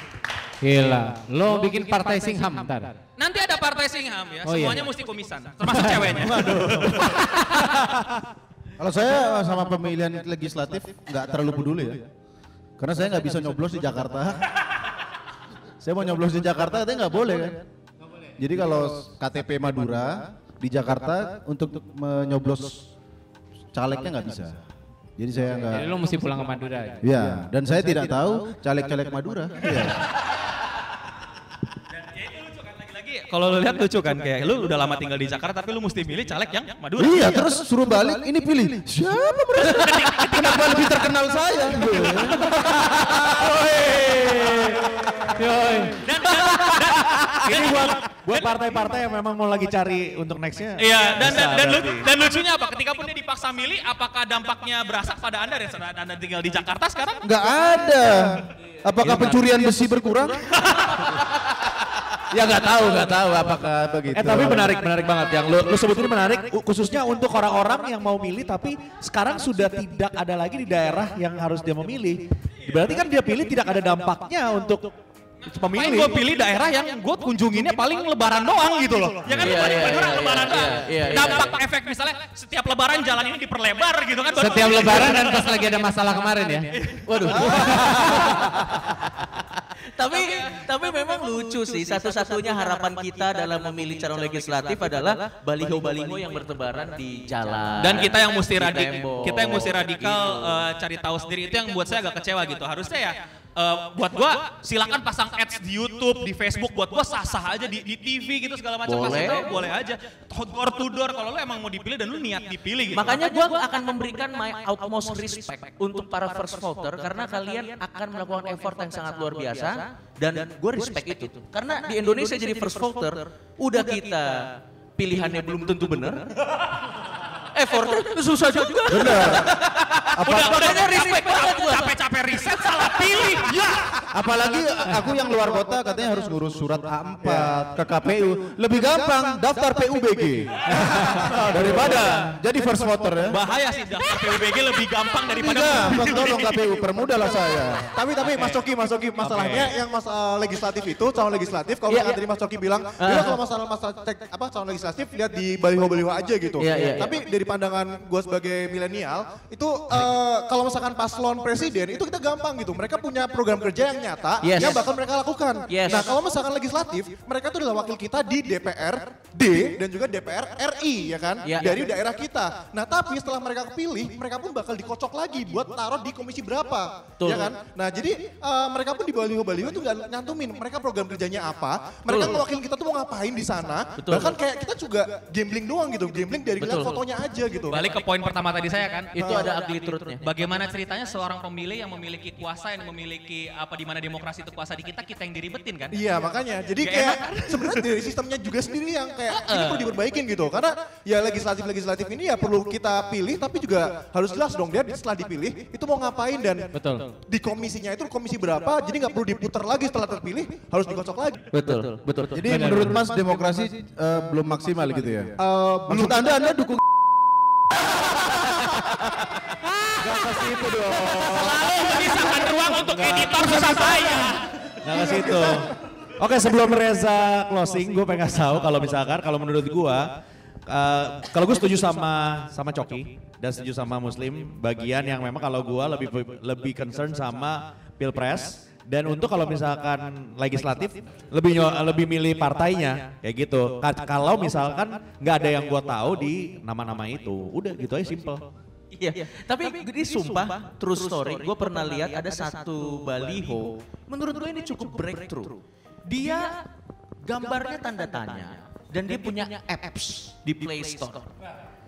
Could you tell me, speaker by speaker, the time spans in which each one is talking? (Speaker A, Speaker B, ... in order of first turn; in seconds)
Speaker A: 0.6-3.0, 4.5-4.9, 25.7-27.1, 45.3-46.0, 84.4-86.7, 206.7-207.1, 212.4-213.0
Speaker B: 3.2-7.1, 32.2-37.3, 39.6-40.9, 46.0-48.6, 50.8-57.2, 75.7-85.5, 86.8-87.6, 97.8-113.2, 130.2-133.8, 143.3-146.6, 187.7-189.1, 190.2-196.0, 196.8-197.7, 199.3-199.9, 221.2-224.5
Speaker C: 6.1-7.2, 7.8-8.1, 43.2-44.9, 47.4-52.1, 59.0-59.4, 64.1-74.9, 75.5-76.2, 141.2-142.1, 149.2-149.7, 220.0-224.1, 224.8-230.1, 230.7-248.4
Speaker D: 8.8-12.1, 12.8-14.4, 15.8-17.6, 18.4-22.9, 23.7-24.6, 25.2-25.9, 27.0-30.1, 37.0-43.5, 57.2-60.5, 62.3-64.8, 128.9-129.6, 130.2-130.6, 134.1-143.4, 145.3-147.9, 212.3-216.8
Speaker E: 79.3-81.6, 87.1-100.7, 108.9-109.6, 113.0-126.3, 127.5-132.0, 132.6-133.2, 151.9-152.2, 153.0-153.4, 156.6-157.2, 164.4-164.9, 165.7-166.1, 171.4-171.9, 177.2-177.5, 182.1-182.4, 184.0-184.4, 186.6-187.0, 189.2-190.2, 211.5-212.4, 248.9-256.6, 257.2-261.3
Speaker F: 147.9-187.9, 189.2-189.5, 195.9-211.4, 215.5-216.1